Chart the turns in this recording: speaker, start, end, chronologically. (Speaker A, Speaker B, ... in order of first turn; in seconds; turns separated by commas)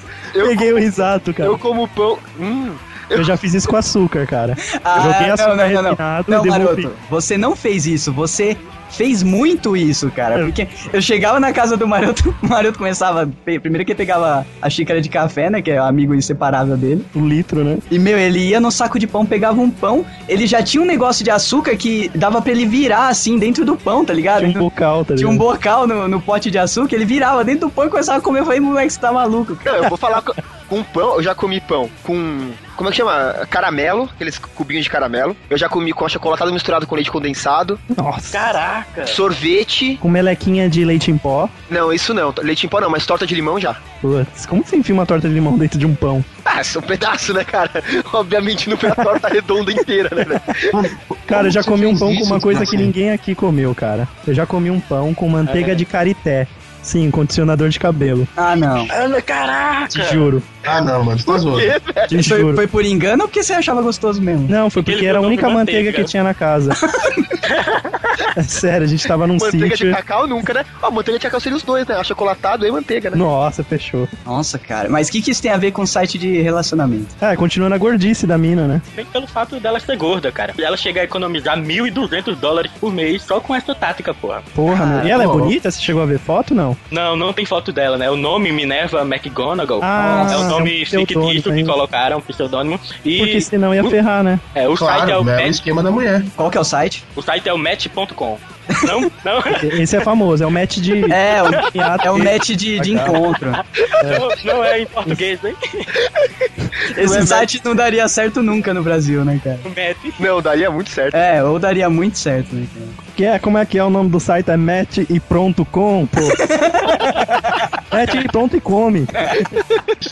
Speaker A: 0.3-0.9, Speaker B: 0.4-1.6, Speaker A: 1.4-3.4, Speaker B: 3.1-6.9, Speaker C: 4.6-17.1, Speaker B: 17.1-17.8, Speaker C: 17.9-24.6, Speaker B: 24.4-25.4, Speaker C: 25.2-29.8, Speaker A: 29.6-37.8, Speaker B: 37.9-38.5, Speaker D: 38.3-39.2, Speaker A: 39.0-40.0, Speaker B: 40.0-41.5, Speaker A: 41.7-43.8, Speaker B: 44.0-46.2, Speaker A: 46.5-50.8, Speaker B: 48.8-49.1, Speaker E: 50.7-52.9, Speaker B: 51.3-58.3, Speaker D: 55.4-55.8, Speaker C: 58.4-58.9, Speaker D: 58.9-60.3, Speaker B: 59.9-60.5, Speaker E: 60.6-61.7, Speaker A: 61.2-62.3, Speaker B: 62.1-62.6, Speaker C: 62.2-64.5, Speaker B: 64.5-66.8, Speaker D: 64.8-66.1, Speaker C: 66.8-67.3, Speaker D: 67.4-68.2, Speaker B: 68.3-70.0, Speaker A: 69.3-73.2, Speaker B: 73.1-74.1, Speaker C: 74.2-77.1, Speaker B: 77.2-78.8, Speaker D: 78.9-84.5, Speaker B: 84.5-86.8, Speaker C: 84.7-85.2, Speaker E: 85.1-85.5, Speaker D: 86.9-94.0, Speaker B: 89.8-91.7, Speaker C: 90.0-90.6, Speaker B: 93.2-94.4, Speaker D: 94.5-95.6, Speaker E: 94.8-96.3, Speaker C: 96.4-97.0, Speaker D: 97.2-100.0, Speaker B: 99.5-103.2, Speaker C: 101.1-103.6, Speaker D: 103.5-105.9, Speaker C: 106.9-109.7, Speaker A: 106.9-107.5, Speaker D: 109.6-110.2, Speaker A: 110.2-111.2, Speaker C: 111.1-113.0, Speaker B: 113.1-116.4, Speaker C: 116.4-117.7, Speaker B: 117.9-119.1, Speaker C: 119.2-119.4